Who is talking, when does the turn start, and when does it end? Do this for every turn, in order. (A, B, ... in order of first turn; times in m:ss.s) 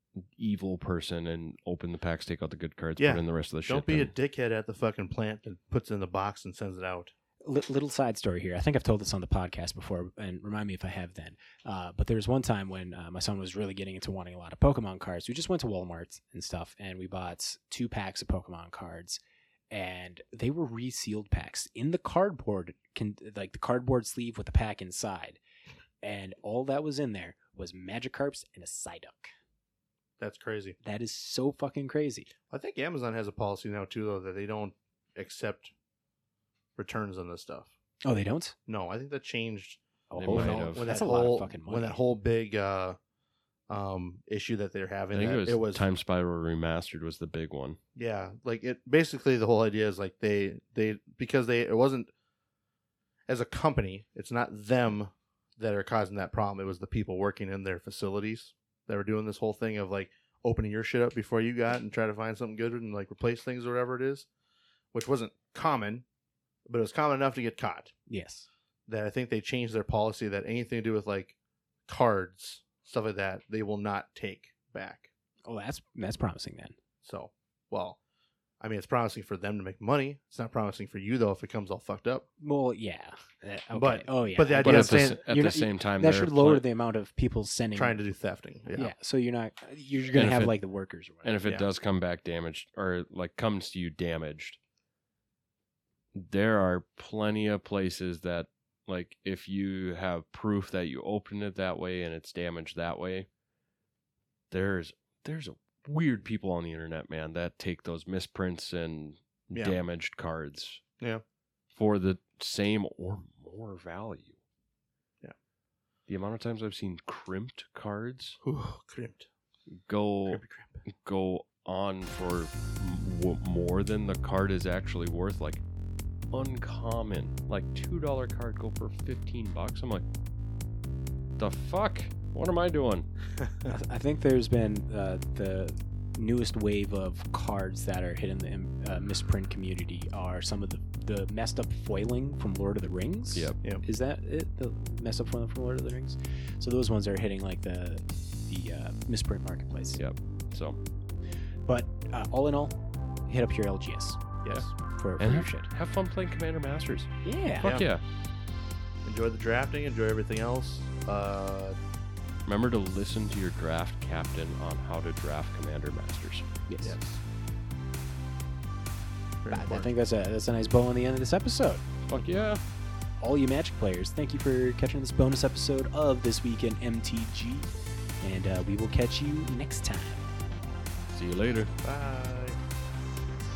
0:00.3-0:04.1 A
0:03.0-0:07.1 B
0:07.4-0:19.2 C
0:19.7-0:25.4 C
0:26.0-0:29.3 C
0:30.2-0:30.8 B
0:30.8-0:32.3 C
0:32.5-0:35.7 B
0:36.8-0:37.7 B
0:38.0-0:38.6 C
0:38.7-0:43.0 B
0:40.1-0:42.0 C
0:40.2-0:40.8 A
0:43.7-0:45.9 B
0:45.1-0:47.8 A
0:48.0-0:52.1 B
0:53.3-1:04.3 B
1:04.9-1:06.0 B
1:06.7-1:07.9 B
1:08.1-1:08.5 C
1:08.9-1:11.4 B
1:11.9-1:15.1 B
1:15.4-1:16.8 C
1:17.0-1:18.0 B
1:18.6-1:22.2 B
1:22.4-1:28.0 C
1:23.7-1:25.1 B
1:24.6-1:26.6 A
1:27.7-1:28.9 B
1:28.7-1:31.3 C
1:30.1-1:30.6 A
1:31.2-1:34.6 A
1:36.1-1:43.3 A
1:44.5-1:50.8 A
1:51.7-1:54.3 A
1:56.1-1:58.4 A
1:58.4-1:59.3 B
1:59.8-2:05.6 A
2:00.3-2:00.8 B
2:06.3-2:10.0 A
2:11.4-2:13.1 A
2:13.4-2:13.7 B
2:13.7-2:30.0 C
2:30.0-2:30.8 A
2:31.6-2:35.7 C
2:34.4-2:34.7 B
2:35.2-2:38.0 A
2:37.2-2:37.7 C
2:37.6-2:37.9 B
2:39.0-2:41.8 B
2:42.4-2:46.5 A
2:46.7-2:47.0 C
2:46.8-2:47.2 B
2:49.4-2:49.9 B
2:49.5-2:51.8 C
2:52.1-2:52.6 A
2:53.2-2:57.7 C
2:58.2-3:00.3 C
3:01.1-3:01.7 A
3:01.8-3:02.6 B